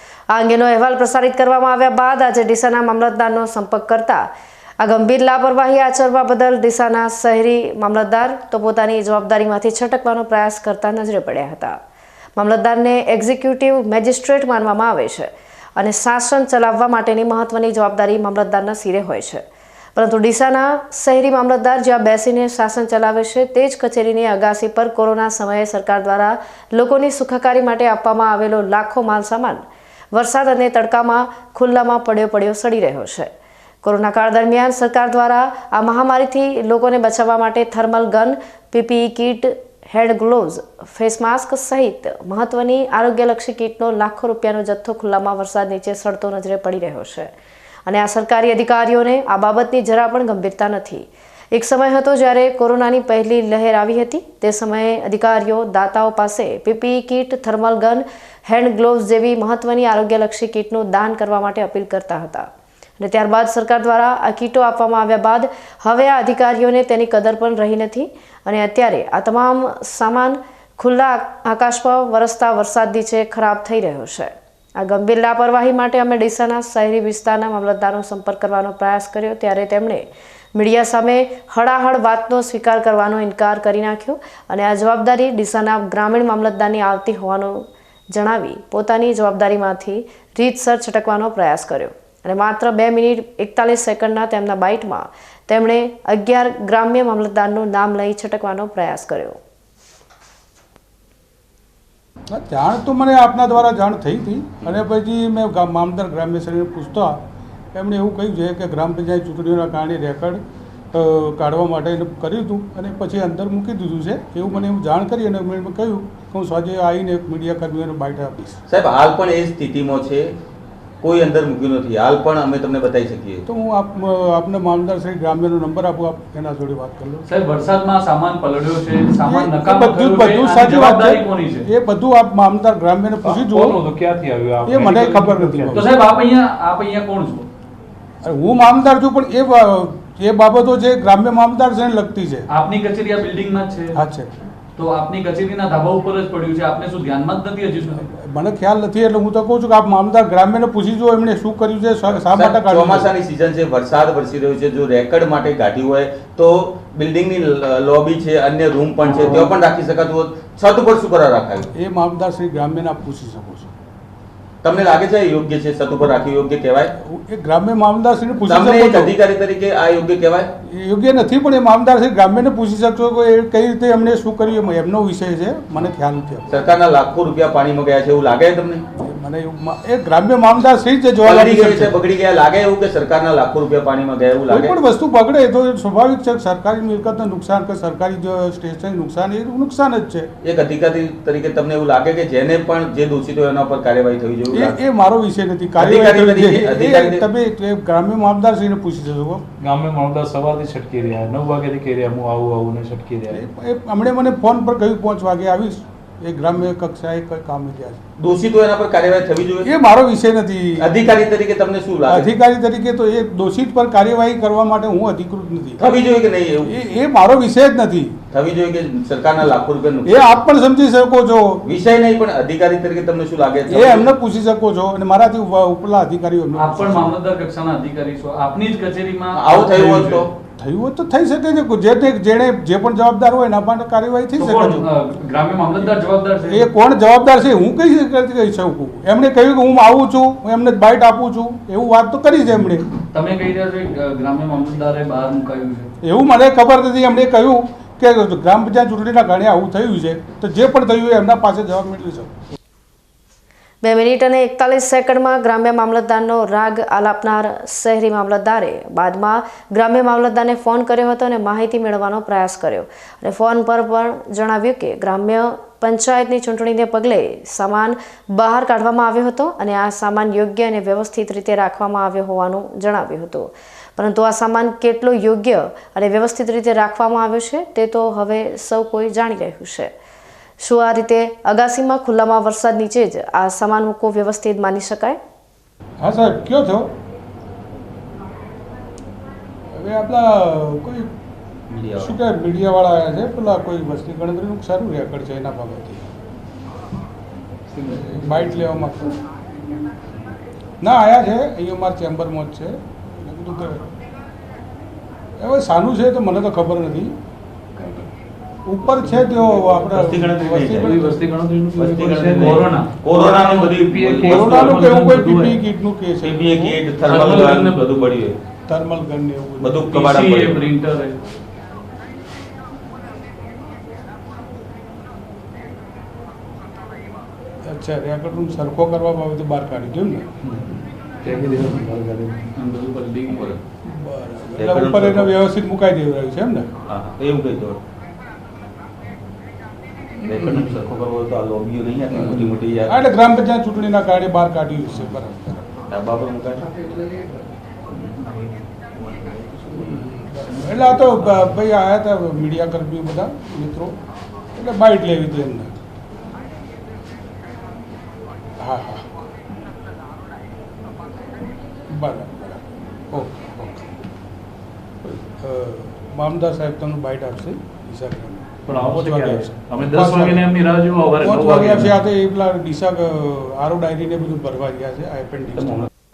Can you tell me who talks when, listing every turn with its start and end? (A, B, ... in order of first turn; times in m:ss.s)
0:00.3-0:04.3 A
0:04.8-0:11.8 A
0:12.4-0:19.4 A
0:20.0-0:33.3 A
0:33.8-0:47.3 A
0:47.8-1:02.5 A
1:03.0-1:39.4 A
1:42.3-1:47.2 B
1:47.7-1:50.4 B
1:50.9-1:58.6 B
1:58.7-2:00.3 C
2:01.0-2:03.4 C
2:03.5-2:07.2 B
2:07.2-2:11.7 D
2:09.2-2:13.8 B
2:13.2-2:15.9 E
2:14.6-2:15.9 B
2:15.7-2:17.5 D
2:18.2-2:22.5 B
2:22.5-2:24.0 D
2:23.9-2:24.3 B
2:24.8-2:28.1 D
2:27.9-2:33.1 B
2:32.1-2:41.7 C
2:41.7-2:43.7 B
2:44.6-2:46.9 C
2:47.0-2:49.1 B
2:48.5-2:50.5 C
2:50.6-2:56.7 B
2:56.5-2:58.8 C
2:59.0-3:01.9 B
3:01.2-3:04.7 C
3:04.5-3:10.3 B
3:10.4-3:14.8 C
3:14.5-3:19.4 B
3:15.8-3:17.2 C
3:19.6-3:23.4 E
3:23.3-3:28.0 B
3:28.2-3:29.7 C
3:29.6-3:31.0 B
3:30.8-3:32.3 C
3:32.1-3:35.9 B
3:35.8-3:36.7 C
3:36.6-3:38.2 B
3:38.3-3:40.4 C
3:40.0-3:41.6 B
3:41.6-3:44.1 C
3:43.7-3:47.1 B
3:46.6-3:50.2 D
3:49.3-3:50.3 C
3:50.6-3:54.8 B
3:54.4-3:56.7 D
3:56.5-4:02.9 B
4:03.1-4:05.9 D
4:06.0-4:12.3 B
4:13.8-4:39.9 A
4:40.6-4:45.2 A
4:46.0-4:46.9 B
4:49.7-4:51.1 B
4:51.7-4:52.1 C
4:52.0-4:56.1 B
4:57.8-4:58.3 E
4:57.9-4:59.1 B
5:00.8-5:03.9 B
5:05.4-5:07.1 B
5:08.6-5:11.2 B
5:09.6-5:11.0 C
5:10.8-5:12.6 E
5:11.8-5:14.8 C
5:12.3-5:12.9 D
5:13.3-5:15.5 E
5:14.2-5:17.6 B
5:16.2-5:18.4 C
5:17.1-5:17.8 D
5:18.7-5:20.0 B
5:19.6-5:20.6 C
5:19.9-5:21.2 D
5:27.6-5:30.3 B
5:31.2-5:32.5 E
5:32.5-5:33.6 D
5:33.3-5:33.6 C
5:33.8-5:36.7 B
5:34.6-5:35.3 C
5:36.9-5:37.8 C
5:40.2-5:40.7 B
5:40.2-5:43.0 C
5:42.3-5:45.6 B
5:45.9-5:46.7 C
5:47.0-5:47.2 D
5:47.9-5:48.2 C
5:49.1-5:50.0 C
5:49.8-5:53.9 B
5:50.7-5:51.5 C
5:54.5-5:55.8 B
5:58.6-5:59.2 B
6:01.9-6:02.6 B
6:03.1-6:03.9 B
6:05.0-6:10.5 B
6:08.7-6:11.9 E
6:11.2-6:15.9 B